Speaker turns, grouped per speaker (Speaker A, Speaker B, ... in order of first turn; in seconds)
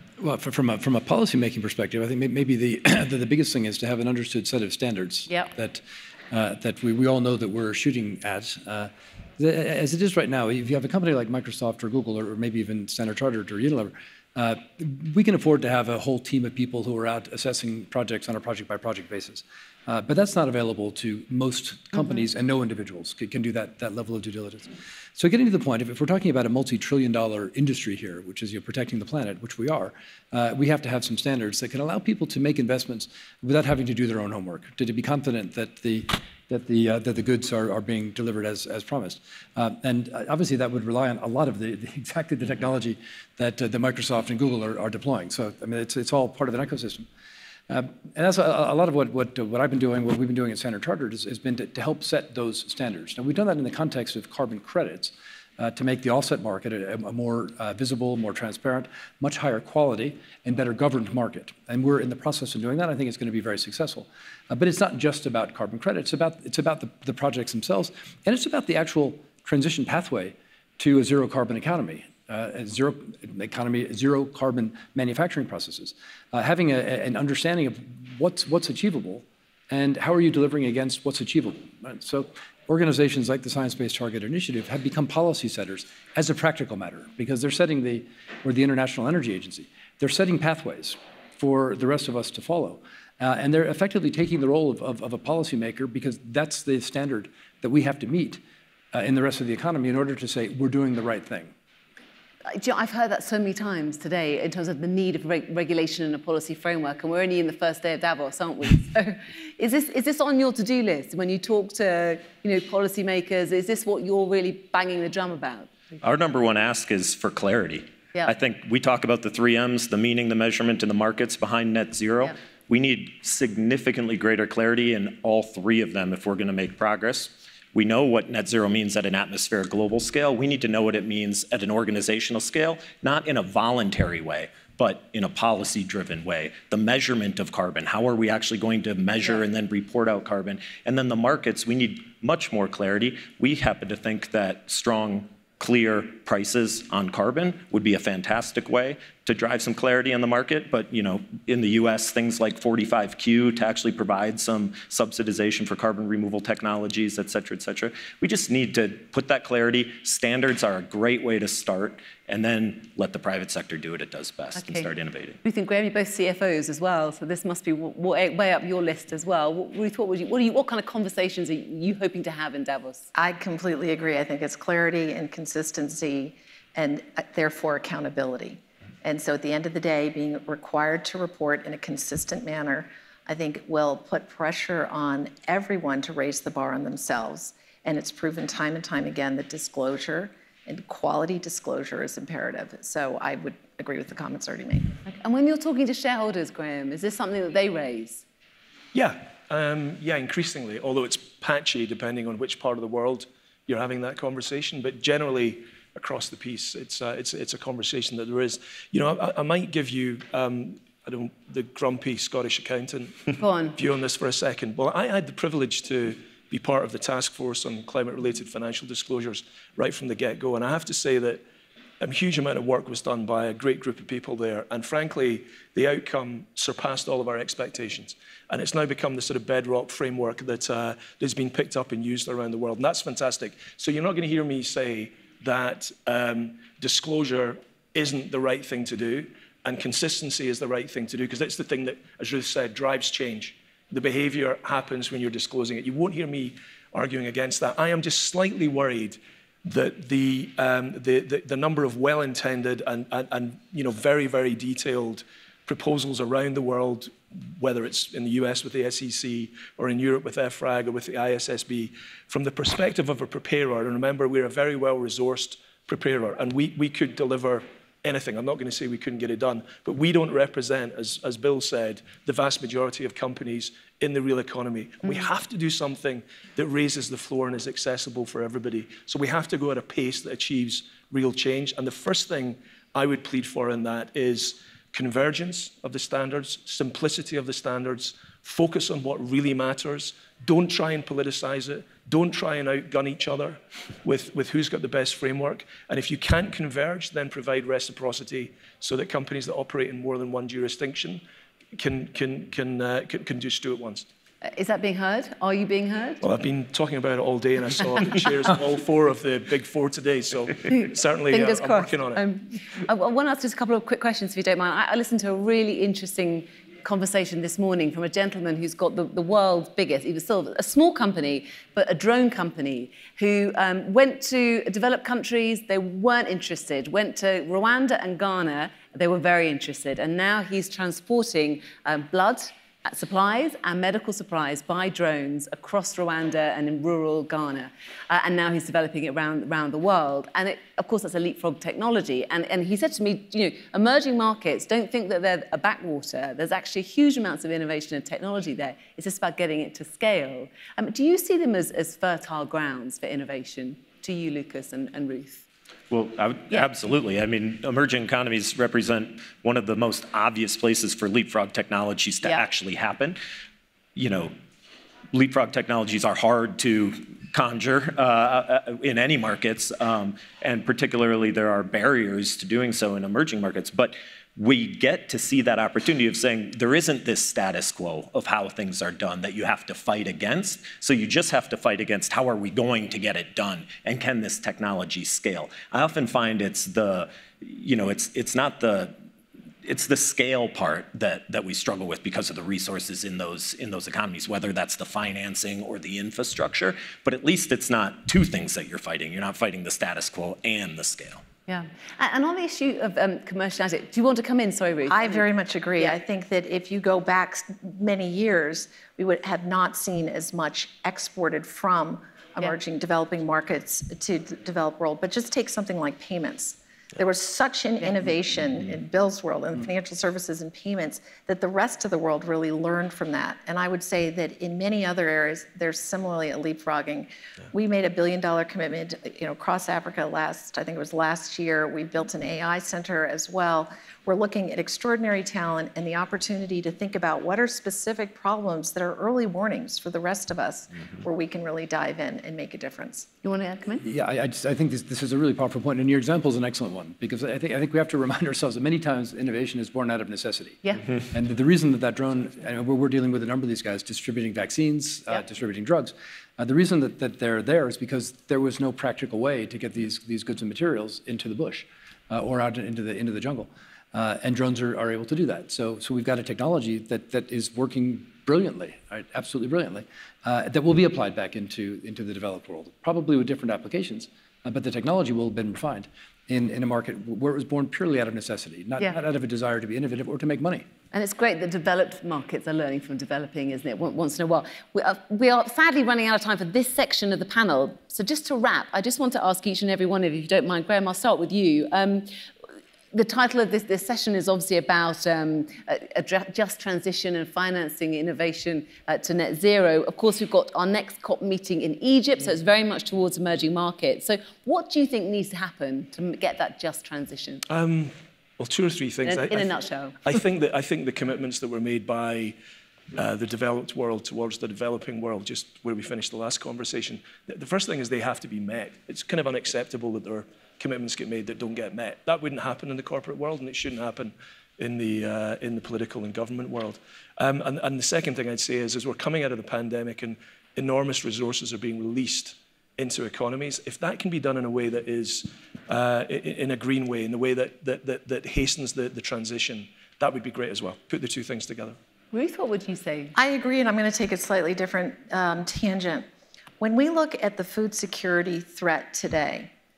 Speaker A: 0.2-47.0, 47.7-98.4, 98.9-101.5, 443.8-480.6
Speaker B: 102.5-115.7, 164.6-164.9, 165.4-173.1, 195.0-198.2, 213.4-213.8, 304.4-306.2, 310.7-355.4, 401.5-405.3, 443.2-443.8, 480.9-492.2, 492.9-507.4, 509.0-510.0, 542.1-543.1
Speaker C: 116.0-165.4, 355.9-363.2, 363.9-364.3, 365.1-388.9, 389.6-401.2
Speaker D: 173.1-194.9, 404.9-443.1, 543.1-546.0, 546.6-549.5
Speaker E: 198.9-221.4, 222.0-301.2, 301.7-304.1, 306.2-312.2, 507.5-509.5, 510.0-512.3, 512.9-541.8